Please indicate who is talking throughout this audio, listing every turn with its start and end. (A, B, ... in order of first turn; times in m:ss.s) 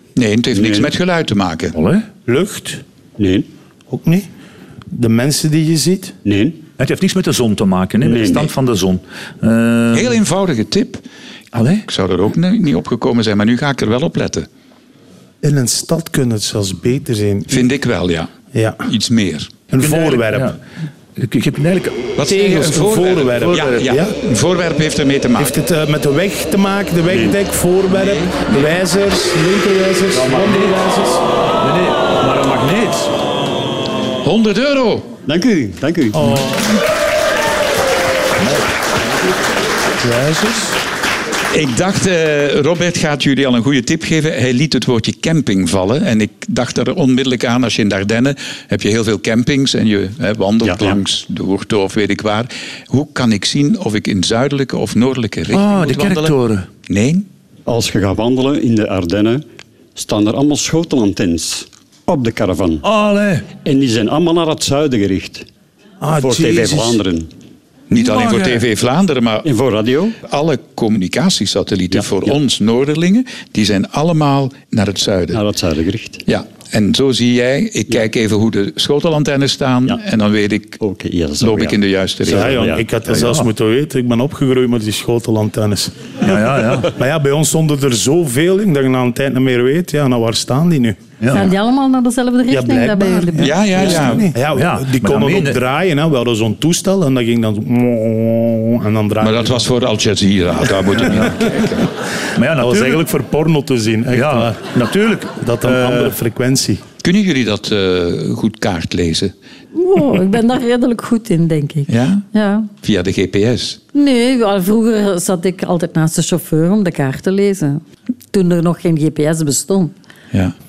0:00.2-0:01.8 A
0:00.5-0:00.9 B
0:01.7-0:02.1 C
0:02.3-0:02.8 D
0:03.2-0:03.5 B
0:03.9-0:04.3 D
0:04.9-0:06.2 D
0:06.2-0:06.6 B
0:06.8-0:10.2 C
0:08.0-0:08.5 B
0:09.9-0:11.0 A
0:11.5-0:11.9 C
0:11.9-0:14.5 A
0:15.4-0:17.7 D
0:17.5-0:18.3 A
0:18.5-0:18.8 D
0:18.8-0:19.5 A
0:19.7-0:20.6 D
0:19.8-0:20.6 C
0:21.2-0:22.1 C
0:22.2-0:25.6 A
0:22.2-0:24.1 D
0:23.5-0:23.8 C
0:25.4-0:31.2 D
0:27.1-0:27.4 B
0:27.9-0:28.8 A
0:30.1-0:30.8 C
0:31.6-0:33.1 C
0:34.2-0:35.1 A
0:35.3-0:36.2 B
0:36.1-0:36.8 D
0:40.0-0:40.8 D
0:41.5-0:56.4 A
0:50.6-0:51.0 B
0:55.5-0:56.7 C
0:56.9-0:57.3 A
0:57.7-0:59.4 B
1:00.0-1:02.8 B
1:02.8-1:03.5 C
1:03.6-1:05.5 B
1:06.0-1:07.0 D
1:06.2-1:07.3 B
1:07.9-1:09.5 A
1:08.0-1:08.6 C
1:09.4-1:10.2 B
1:10.2-1:15.4 A
1:11.9-1:12.3 B
1:15.3-1:16.2 B
1:16.3-1:20.8 A
1:20.8-1:22.9 B
1:21.4-1:22.8 A
1:22.3-1:25.9 D
1:23.1-1:23.5 C
1:26.2-1:26.9 C
1:26.9-1:31.0 D
1:31.2-1:31.5 C
1:31.3-1:33.5 E
1:32.5-1:39.7 D
1:33.4-1:34.3 A
1:33.8-1:35.6 C
1:39.2-1:41.9 A
1:41.0-1:41.3 D
1:42.4-1:43.1 C
1:42.6-1:44.6 D
1:44.1-1:46.2 C
1:45.4-1:46.8 D
1:47.0-1:49.3 A
1:49.8-1:52.7 E
1:51.9-1:52.3 A
1:52.8-1:53.8 A
1:53.9-1:57.8 E
1:58.3-1:59.9 E